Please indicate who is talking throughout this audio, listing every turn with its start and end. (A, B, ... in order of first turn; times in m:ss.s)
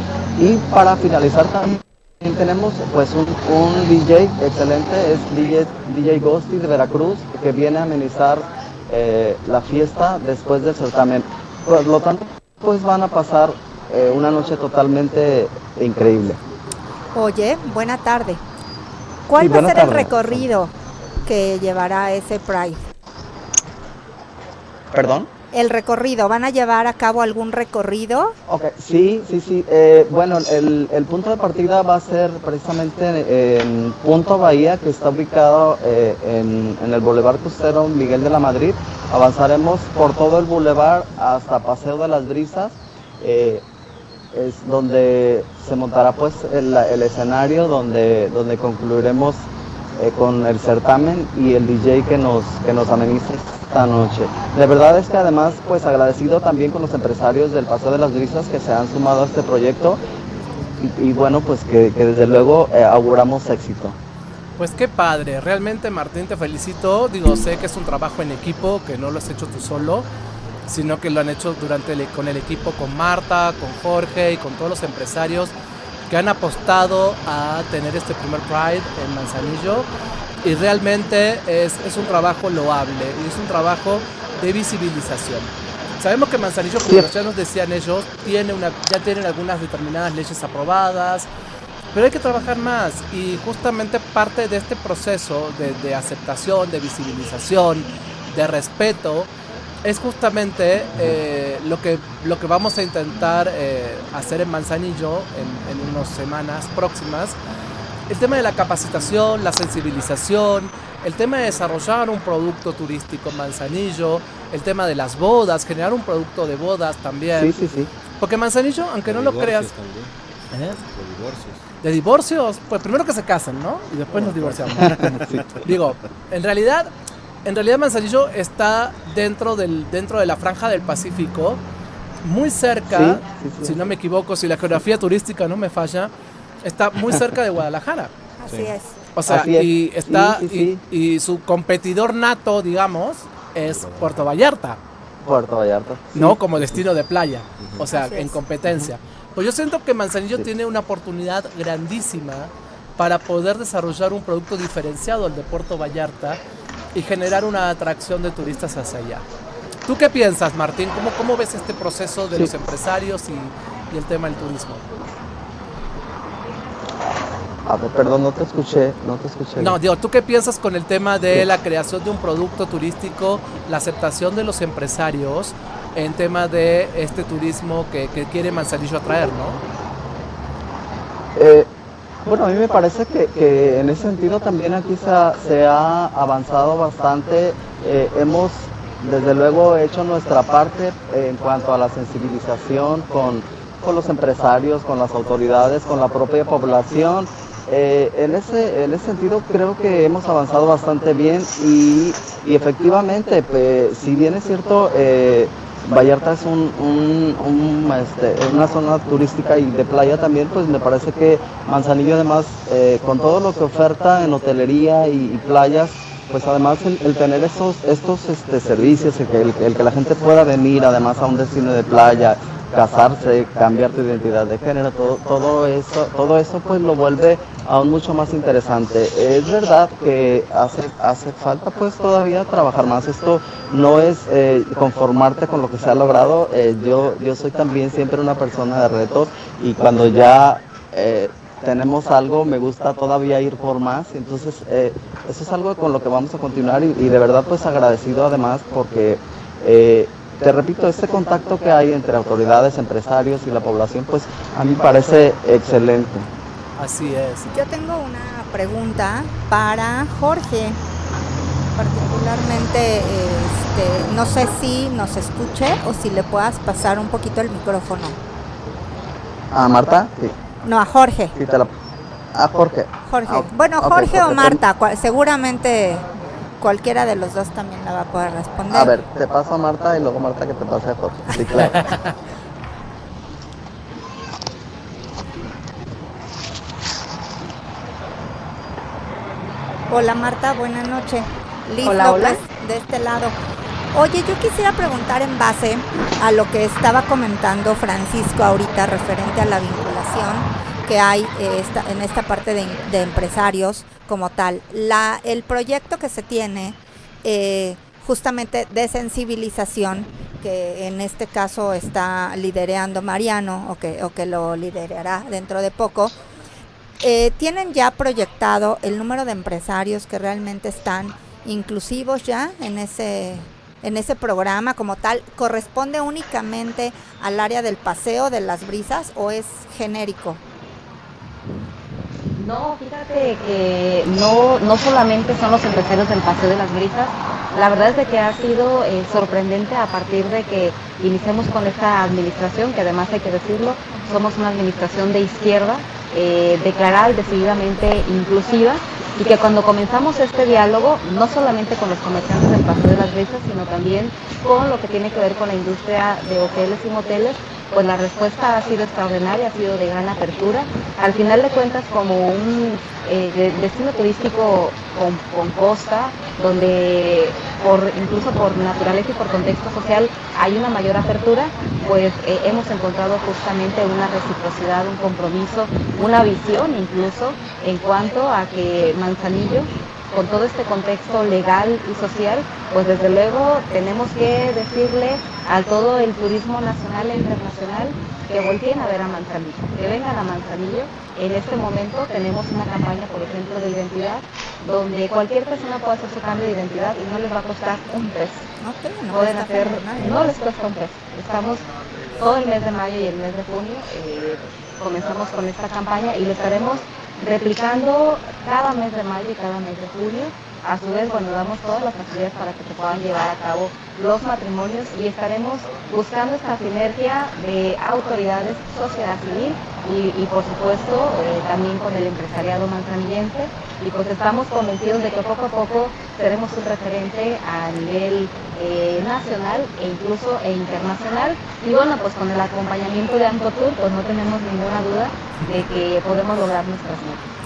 0:00.4-0:16.4 A
0:17.1-0:18.4 B
0:19.3-0:20.7 B
0:19.4-0:20.4 A
0:21.2-0:22.8 B
0:24.9-0:25.3 A
0:25.5-0:28.4 B
0:28.5-0:43.6 A
0:44.3-0:49.4 A
0:50.0-1:00.0 A
1:00.8-1:04.0 A
1:04.6-1:10.1 C
1:10.7-1:15.5 C
1:16.1-1:19.9 C
1:20.4-1:31.3 C
1:31.9-1:39.3 C
1:39.8-1:47.4 C
1:48.1-1:57.5 C
1:57.3-1:57.9 A
1:58.2-1:59.7 C
1:59.0-2:01.6 D
2:00.5-2:00.8 C
2:01.8-2:05.1 C
2:04.1-2:05.6 A
2:04.9-2:05.5 D
2:05.6-2:06.9 C
2:07.4-2:11.6 C
2:12.2-2:16.1 C
2:12.9-2:13.8 A
2:16.6-2:18.1 C
2:18.4-2:19.1 B
2:18.5-2:18.7 D
2:19.2-2:24.8 C
2:19.3-2:20.8 A
2:23.6-2:24.3 D
2:25.2-2:26.4 A
2:26.1-2:36.4 C
2:27.9-2:28.4 B
2:36.9-2:39.2 C
2:39.9-2:44.8 C
2:47.7-2:49.8 A
2:49.6-2:59.6 C
3:01.4-3:01.7 A
3:02.2-4:16.3 A
4:16.8-4:17.5 C
4:17.5-4:20.8 B
4:21.8-4:28.2 B
4:29.5-4:30.4 A
4:30.6-4:31.3 B
4:31.4-4:31.7 A
4:32.3-4:34.6 A
4:33.1-4:36.1 B
4:36.6-4:39.0 B
4:38.7-4:42.0 A
4:49.9-4:53.3 B
4:51.8-4:52.4 E
4:53.9-5:16.1 B
5:17.0-5:30.4 B
5:32.4-6:38.4 E
6:38.6-6:40.4 B
6:39.1-6:41.6 E
6:42.2-7:17.2 E